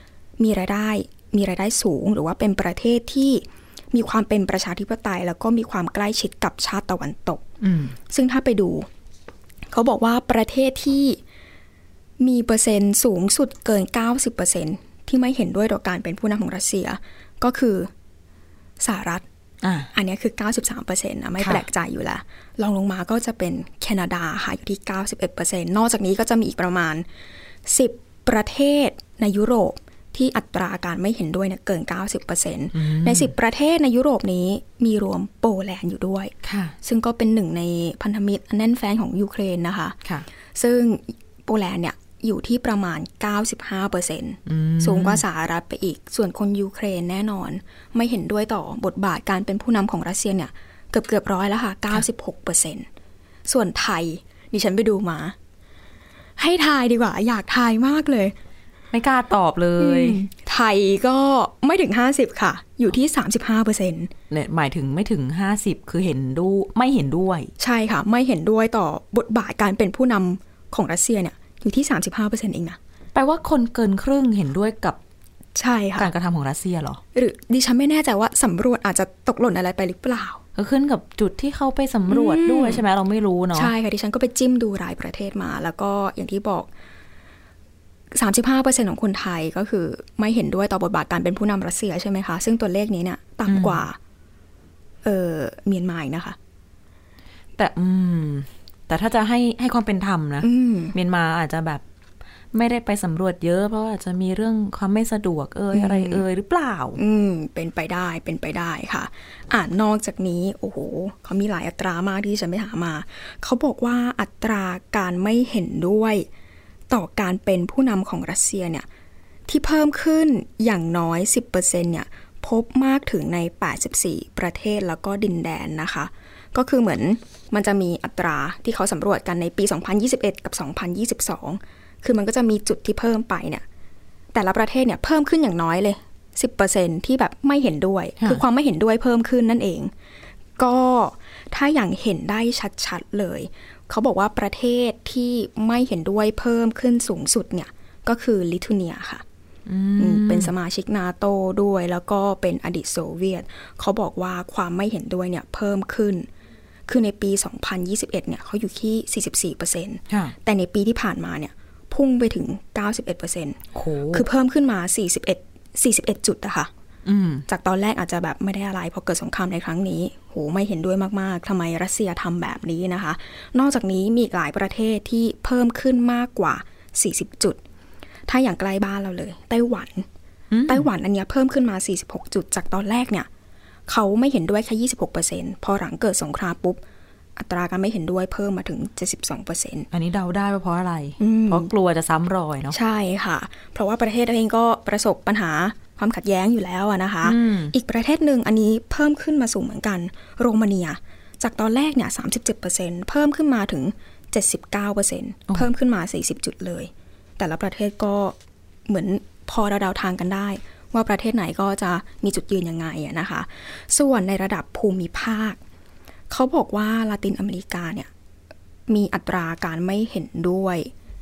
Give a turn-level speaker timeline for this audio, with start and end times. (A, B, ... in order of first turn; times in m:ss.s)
0:00.4-0:07.4 A
0:07.6-0:07.9 B
0:08.1-0:08.9 A
0:09.7-0:11.2 A
0:12.2-0:17.9 A
0:18.8-0:19.2 A
0:19.6-0:19.9 B
0:19.9-0:27.0 A
0:21.4-0:21.6 B
0:27.6-0:40.0 A
0:32.7-0:33.3 B
0:36.4-0:36.7 B
0:40.5-0:52.8 A
0:44.4-0:45.2 B
0:53.4-0:55.3 A
0:56.4-0:58.3 A
0:58.9-1:00.2 B
0:59.8-1:04.1 A
1:04.3-1:07.5 B
1:07.6-1:12.8 A
1:13.1-1:15.0 B
1:15.6-1:16.1 A
1:16.0-1:17.0 B
1:17.1-1:20.4 A
1:20.5-1:23.7 B
1:22.1-1:22.8 A
1:23.5-1:26.7 A
1:28.1-1:34.0 A
1:33.5-1:33.8 B
1:35.0-1:36.4 A
1:37.6-1:41.8 B
1:40.4-1:40.9 A
1:42.5-1:47.0 B
1:45.7-1:46.2 A
1:47.0-1:56.3 A
1:56.9-1:58.8 A
1:59.5-2:13.6 A
2:14.3-2:19.9 A
2:20.6-2:29.2 A
2:29.7-2:30.5 B
2:30.0-2:36.3 A
2:36.9-2:43.6 A
2:40.1-2:40.3 B
2:43.7-2:44.2 B
2:44.1-2:46.7 A
2:47.0-2:47.4 B
2:47.5-2:57.6 A
2:58.3-3:00.1 A
3:00.5-3:00.9 B
3:00.6-3:03.3 A
3:03.9-3:06.8 A
3:07.4-3:09.9 A
3:09.9-3:12.8 B
3:11.2-3:11.7 A
3:12.7-3:28.4 A
3:17.2-3:17.7 B
3:28.9-3:35.6 A
3:36.3-3:38.1 A
3:38.9-3:40.9 A